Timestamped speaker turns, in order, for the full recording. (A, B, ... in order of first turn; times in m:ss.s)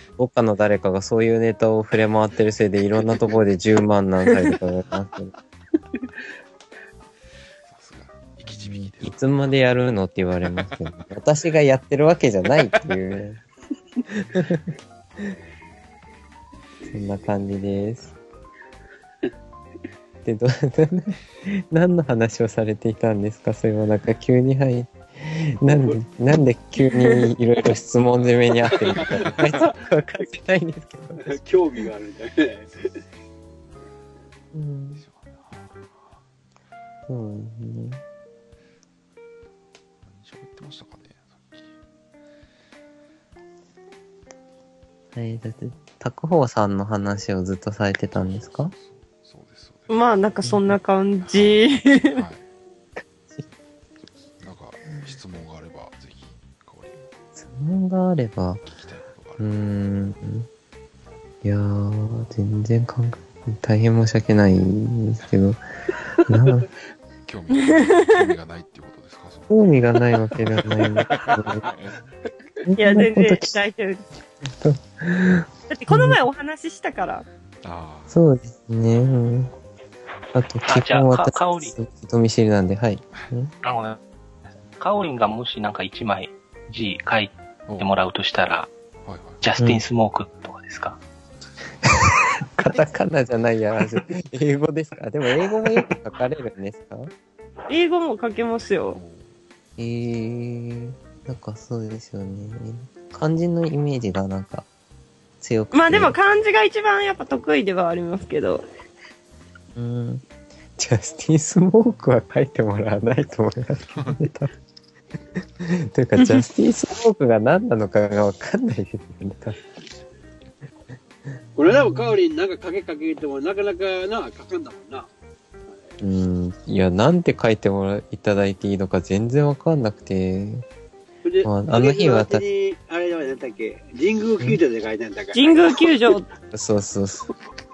0:00.2-0:05.3 A
0:07.7-0:09.2 B
0:08.5-0:13.4 A
0:10.7-0:11.0 B
0:14.1-0:15.3 A
0:16.9-0:18.1 A
0:20.2-0:31.4 A
0:25.7-0:26.0 C
0:26.8-0:27.3 D
0:28.7-0:29.6 B
0:28.8-0:29.8 C
0:31.2-0:32.8 C
0:34.5-0:35.0 A
0:35.0-0:36.0 B
0:37.1-0:38.0 A
0:40.0-0:41.7 B
0:45.2-0:48.7 A
0:48.1-0:50.0 B
0:49.9-0:52.2 D
0:51.2-0:52.4 B
0:54.2-0:57.1 B
0:57.4-0:58.6 A
0:58.6-0:59.5 B
0:59.4-1:00.5 A
1:01.4-1:05.6 A
1:06.2-1:06.7 A
1:07.2-1:09.6 B
1:07.6-1:08.2 D
1:09.5-1:11.7 A
1:10.3-1:12.0 B
1:12.6-1:13.6 A
1:12.8-1:14.1 D
1:14.4-1:16.2 A
1:15.7-1:17.3 D
1:17.6-1:18.2 B
1:18.1-1:19.5 A
1:20.3-1:23.5 A
1:20.7-1:21.7 E
1:23.6-1:24.0 E
1:24.8-1:28.7 E
1:29.0-1:29.4 B
1:29.4-1:31.0 E
1:31.8-1:37.1 A
1:37.7-1:39.0 D
1:38.9-1:39.3 B
1:39.8-1:44.7 A
1:45.4-1:46.2 A
1:45.7-1:48.6 D
1:49.8-1:50.2 A
1:50.8-1:54.5 A
1:54.0-1:54.2 B
1:55.6-1:59.6 A
2:01.6-2:05.1 C
2:01.7-2:02.1 A
2:06.0-2:10.6 A
2:11.2-2:15.9 C
2:11.4-2:12.4 A
2:15.3-2:16.3 D
2:16.5-2:17.3 A